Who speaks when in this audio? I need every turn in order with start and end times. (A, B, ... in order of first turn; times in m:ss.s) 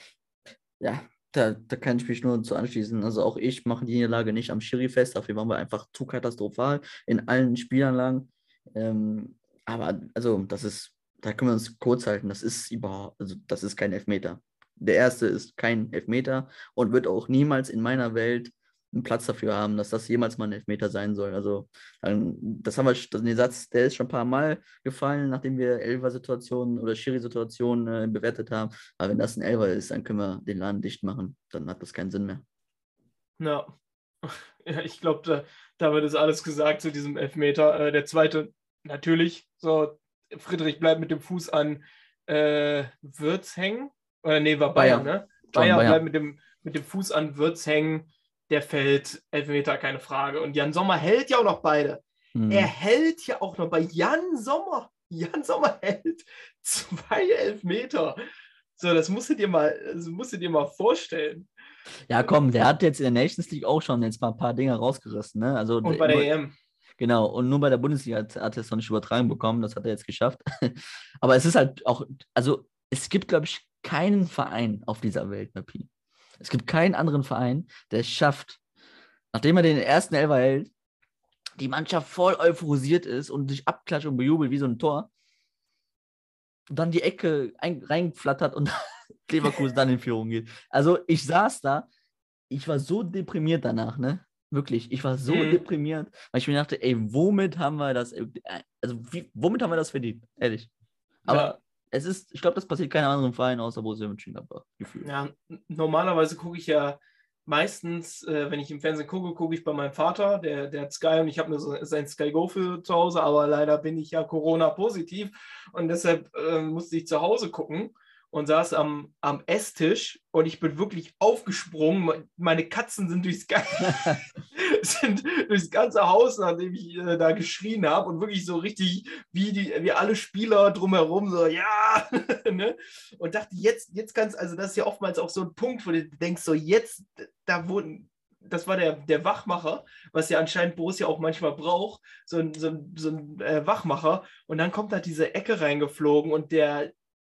0:00.8-0:32.4 A
0:33.4-0:33.7 B
0:34.2-0:58.2 B
0:44.8-0:46.0 A
0:52.3-0:52.7 A
0:58.8-1:01.5 B
1:02.1-1:06.3 A
1:05.8-1:06.5 B
1:07.0-1:18.6 A
1:19.3-1:20.7 A
1:21.6-1:25.1 A
1:26.7-1:31.9 A
1:32.5-1:40.7 A
1:35.3-1:35.6 B
1:41.2-1:45.1 A
1:41.3-1:41.5 B
1:45.0-2:26.9 B